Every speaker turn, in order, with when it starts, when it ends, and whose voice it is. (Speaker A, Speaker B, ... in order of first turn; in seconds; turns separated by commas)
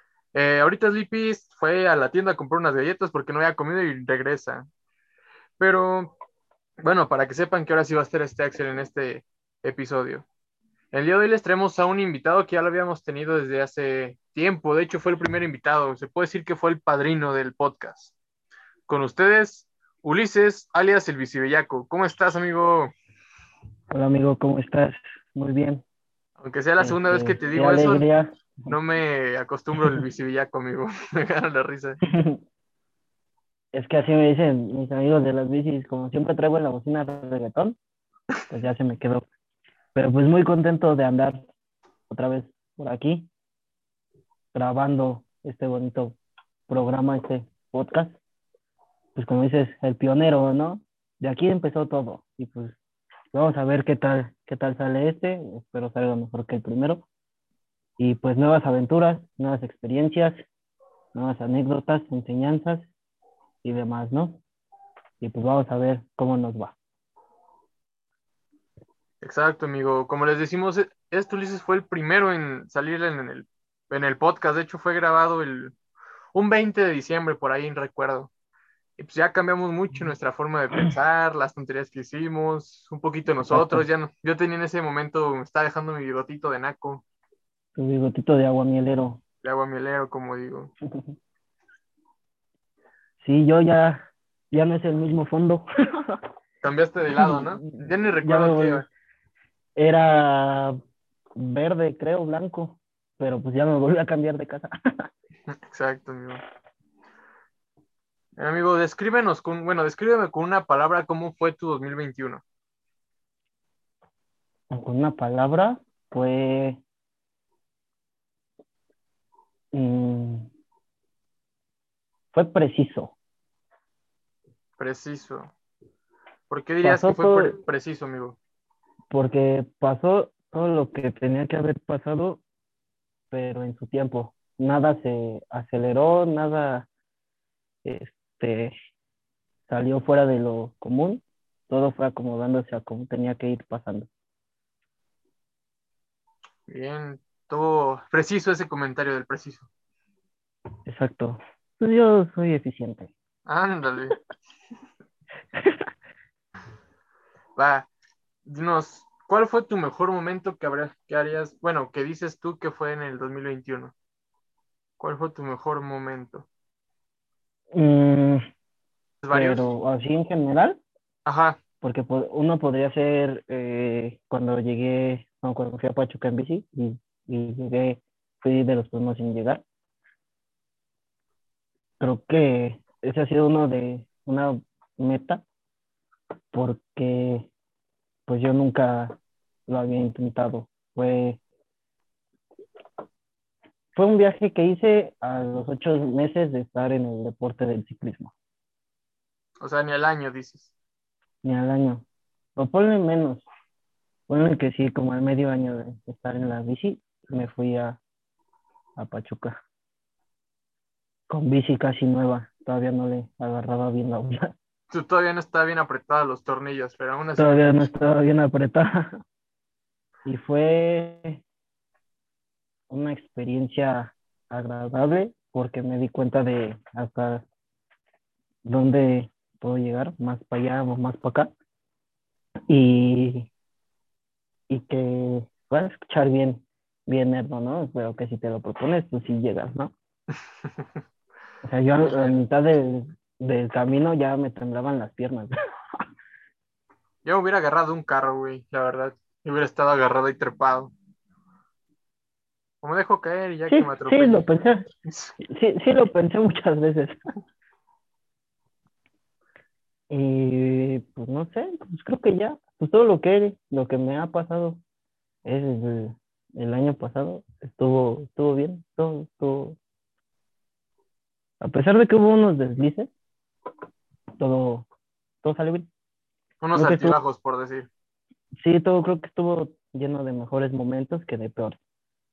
Speaker A: 0.3-4.7, Speaker A: 5.6-6.2, Speaker A: 6.8-10.2, Speaker A: 10.9-18.1, Speaker A: 18.9-22.9, Speaker B: 23.9-25.8, Speaker A: 26.4-28.1, Speaker B: 26.8-28.3, Speaker A: 28.7-32.0, Speaker B: 32.0-32.4, Speaker B: 33.7-37.8, Speaker B: 38.5-39.2, Speaker B: 39.9-41.5, Speaker B: 42.1-43.3, Speaker B: 44.5-46.2, Speaker B: 46.7-48.2, Speaker B: 49.1-52.8, Speaker B: 53.3-57.0, Speaker B: 58.0-60.4, Speaker B: 61.1-62.9, Speaker B: 63.6-64.4, Speaker B: 65.2-66.7, Speaker A: 69.2-75.7, Speaker A: 76.3-78.3, Speaker A: 79.0-87.0, Speaker B: 83.5-83.8, Speaker B: 87.8-89.2, Speaker A: 89.4-90.7, Speaker B: 93.2-96.2, Speaker A: 96.6-98.8, Speaker B: 97.2-98.8, Speaker B: 99.8-100.8, Speaker B: 101.3-105.1, Speaker A: 105.5-106.4, Speaker A: 108.4-112.4, Speaker B: 114.7-116.8, Speaker B: 119.7-120.5, Speaker B: 122.3-123.1, Speaker A: 124.8-125.5, Speaker A: 126.5-128.4, Speaker B: 126.8-127.6, Speaker B: 129.1-132.4, Speaker B: 133.3-136.9, Speaker B: 137.8-138.7, Speaker B: 139.7-144.1, Speaker A: 146.7-149.7, Speaker B: 150.8-153.1, Speaker A: 153.4-154.2, Speaker B: 155.5-155.9, Speaker A: 157.6-157.9, Speaker A: 158.4-163.9, Speaker A: 165.0-166.5, Speaker B: 167.7-168.4, Speaker A: 169.2-169.7, Speaker B: 169.3-170.8, Speaker A: 171.2-171.6, Speaker B: 171.8-179.6, Speaker B: 182.0-185.4, Speaker B: 186.5-187.5, Speaker B: 188.3-191.4, Speaker B: 193.9-198.3, Speaker A: 199.6-200.7, Speaker B: 201.4-202.0, Speaker B: 202.6-203.4, Speaker B: 204.3-208.0, Speaker B: 208.9-209.6, Speaker B: 211.3-214.5, Speaker A: 214.9-217.8, Speaker B: 217.4-219.2, Speaker B: 220.2-221.4, Speaker B: 222.9-227.4, Speaker B: 228.6-231.5, Speaker B: 232.7-233.5, Speaker B: 234.7-239.9, Speaker B: 241.6-245.5, Speaker A: 242.0-242.3, Speaker A: 247.2-250.9, Speaker A: 252.8-254.4, Speaker B: 253.7-254.8, Speaker A: 255.0-255.3, Speaker B: 255.5-257.2, Speaker B: 260.1-264.8, Speaker B: 265.4-269.8, Speaker B: 271.6-273.1, Speaker B: 274.4-274.9, Speaker B: 275.4-275.9, Speaker A: 276.6-277.9, Speaker B: 276.7-277.1, Speaker B: 278.6-281.8